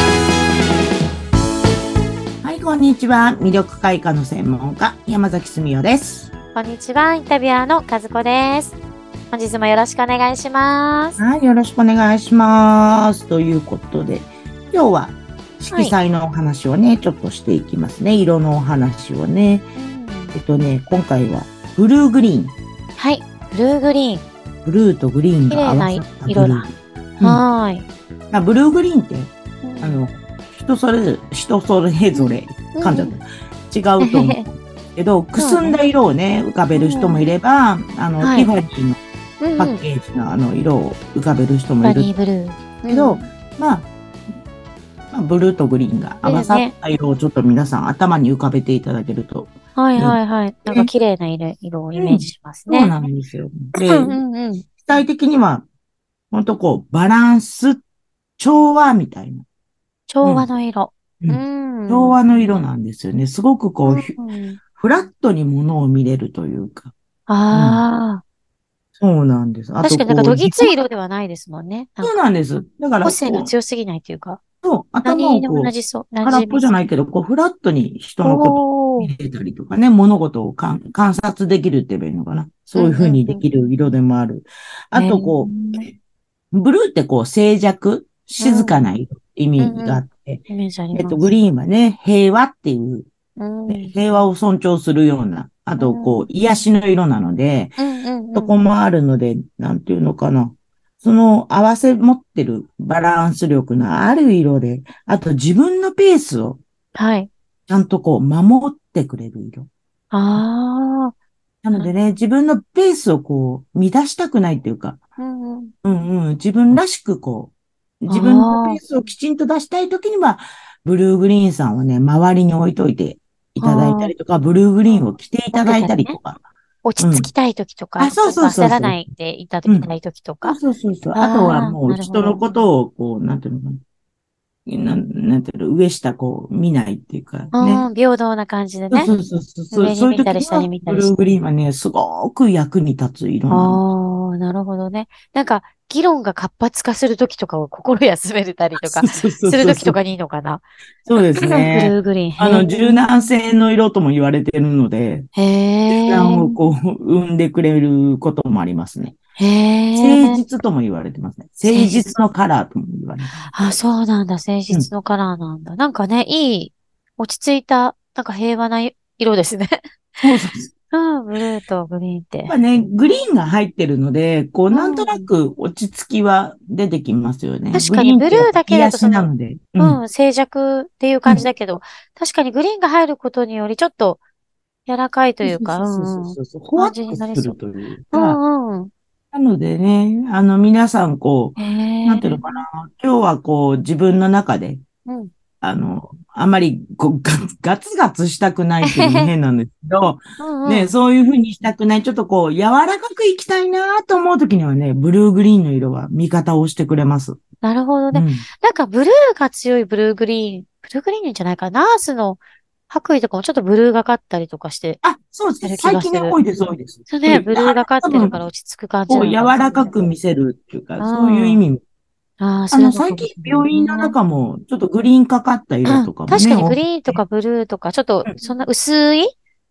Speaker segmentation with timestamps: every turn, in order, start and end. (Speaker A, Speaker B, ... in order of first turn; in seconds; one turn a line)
Speaker A: 2.4-6.3
Speaker B: 6.5-8.8
Speaker B: 9.3-11.2
Speaker A: 11.2-19.6
Speaker B: 19.8-20.4
Speaker A: 20.3-22.5
Speaker B: 23.0-24.2
Speaker A: 24.6-27.4
Speaker B: 25.5-26.7
Speaker B: 27.2-27.9
Speaker A: 28.3-39.0
Speaker B: 29.6-30.0
Speaker B: 32.1-33.1
Speaker B: 34.0-34.4
Speaker B: 35.4-35.8
Speaker B: 36.7-37.3
Speaker B: 38.2-38.5
Speaker B: 39.4-39.8
Speaker A: 39.5-42.1
Speaker B: 41.8-43.2
Speaker A: 42.9-43.9
Speaker A: 45.1-50.9
Speaker B: 46.2-46.7
Speaker B: 49.8-52.9
Speaker A: 51.9-54.2
Speaker B: 53.9-54.6
Speaker A: 54.8-55.6
Speaker A: 56.3-57.8
Speaker A: 58.4-59.4
Speaker B: 60.1-62.6
Speaker A: 60.2-60.5
Speaker A: 61.2-64.1
Speaker B: 63.9-64.6
Speaker A: 64.7-66.9
Speaker B: 67.3-68.2
Speaker A: 67.5-67.8
Speaker A: 69.0-70.7
Speaker B: 69.8-72.2
Speaker A: 72.0-73.5
Speaker B: 73.0-74.4
Speaker A: 74.6-85.9
Speaker B: 75.0-76.7
Speaker B: 78.2-79.1
Speaker B: 82.7-83.5
Speaker B: 84.9-85.8
Speaker A: 86.5-90.4
Speaker B: 88.4-88.8
Speaker B: 89.6-91.3
Speaker A: 90.9-93.1
Speaker B: 93.4-93.9
Speaker A: 93.7-97.8
Speaker B: 95.8-96.2
Speaker B: 97.8-98.5
Speaker A: 98.3-106.6
Speaker B: 106.9-107.3
Speaker A: 107.7-109.7
Speaker B: 110.1-111.1
Speaker A: 111.6-115.0
Speaker B: 115.2-115.7
Speaker A: 115.8-126.4
Speaker B: 118.1-118.8
Speaker B: 123.6-124.1
Speaker B: 125.5-126.2
Speaker B: 126.8-130.6
Speaker A: 127.0-127.3
Speaker A: 128.0-129.0
Speaker A: 130.4-133.8
Speaker B: 131.1-132.5
Speaker A: 134.7-137.8
Speaker B: 137.5-139.1
Speaker A: 138.9-143.8
Speaker B: 139.7-141.3
Speaker B: 143.5-150.6
Speaker A: 148.8-150.0
Speaker A: 151.1-155.3
Speaker B: 151.1-153.0
Speaker B: 155.3-156.6
Speaker A: 155.9-159.2
Speaker B: 159.4-160.4
Speaker A: 159.9-163.8
Speaker B: 161.7-162.1
Speaker B: 163.5-169.8
Speaker A: 170.2-170.7
Speaker B: 170.9-172.5
Speaker A: 172.4-180.0
Speaker B: 174.7-175.3
Speaker B: 177.7-184.2
Speaker B: 184.9-187.6
Speaker A: 185.4-188.4
Speaker B: 188.1-188.9
Speaker A: 189.3-194.8
Speaker B: 191.6-192.6
Speaker B: 195.1-195.3
Speaker A: 195.6-207.4
Speaker B: 198.8-199.3
Speaker B: 200.4-200.9
Speaker B: 207.6-215.0
Speaker A: 208.1-208.5
Speaker A: 215.0-218.4
Speaker B: 215.6-216.4
Speaker B: 217.1-220.1
Speaker A: 219.1-221.8
Speaker B: 221.0-221.6
Speaker B: 222.4-224.2
Speaker A: 222.7-227.2
Speaker B: 225.8-229.3